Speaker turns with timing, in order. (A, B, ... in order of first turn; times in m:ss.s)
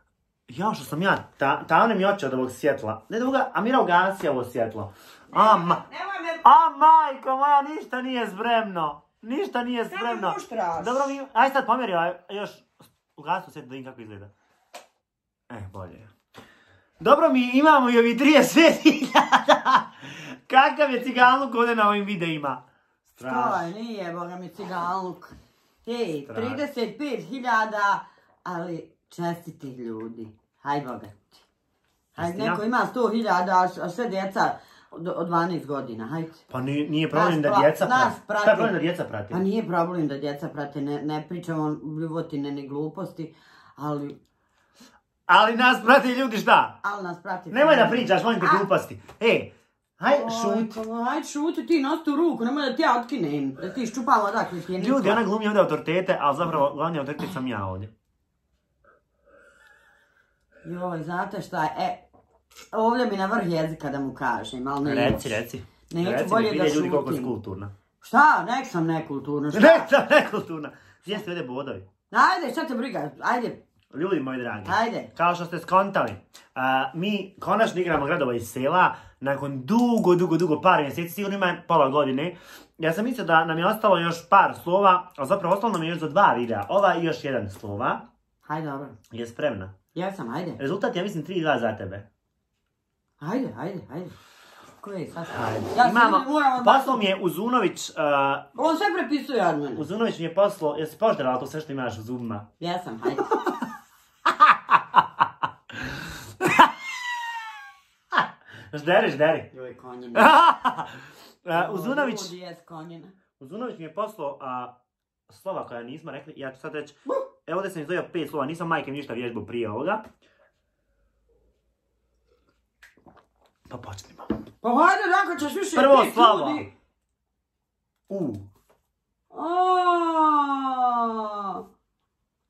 0:00.5-0:05.8 A
0:05.3-0:06.4 B
0:06.4-0:14.3 A
0:09.9-0:11.1 B
0:15.5-0:16.1 A
0:17.0-0:23.7 A
0:23.2-0:31.4 B
0:26.3-0:26.6 A
0:32.1-0:36.4 B
0:32.2-0:32.6 A
0:36.5-0:39.4 A
0:37.1-0:38.7 B
0:39.3-0:44.2 B
0:45.3-0:46.8 A
0:46.8-0:48.6 B
0:47.5-0:50.8 A
0:50.0-0:55.2 B
0:54.8-0:57.9 A
1:00.6-1:02.0 B
1:02.7-1:05.3 B
1:04.8-1:07.7 A
1:05.9-1:07.3 B
1:08.0-1:09.9 B
1:09.5-1:11.8 A
1:12.1-1:13.6 B
1:13.9-1:28.0 A
1:14.6-1:15.1 B
1:28.4-1:29.0 B
1:29.1-1:29.8 A
1:29.9-1:30.6 B
1:30.6-1:32.0 A
1:33.2-1:34.1 B
1:34.8-1:37.0 B
1:35.3-1:38.5 A
1:38.6-1:39.8 B
1:39.8-1:42.5 A
1:42.6-1:43.3 B
1:44.4-1:45.2 A
1:45.8-1:46.7 A
1:48.1-1:49.5 A
1:49.5-1:50.3 B
1:50.1-1:52.3 A
1:51.5-1:53.1 B
1:53.4-1:54.7 A
1:55.3-2:00.0 A
2:03.7-2:04.4 A
2:04.6-2:06.7 B
2:05.7-2:06.7 A
2:08.1-2:08.5 A
2:09.3-2:11.6 B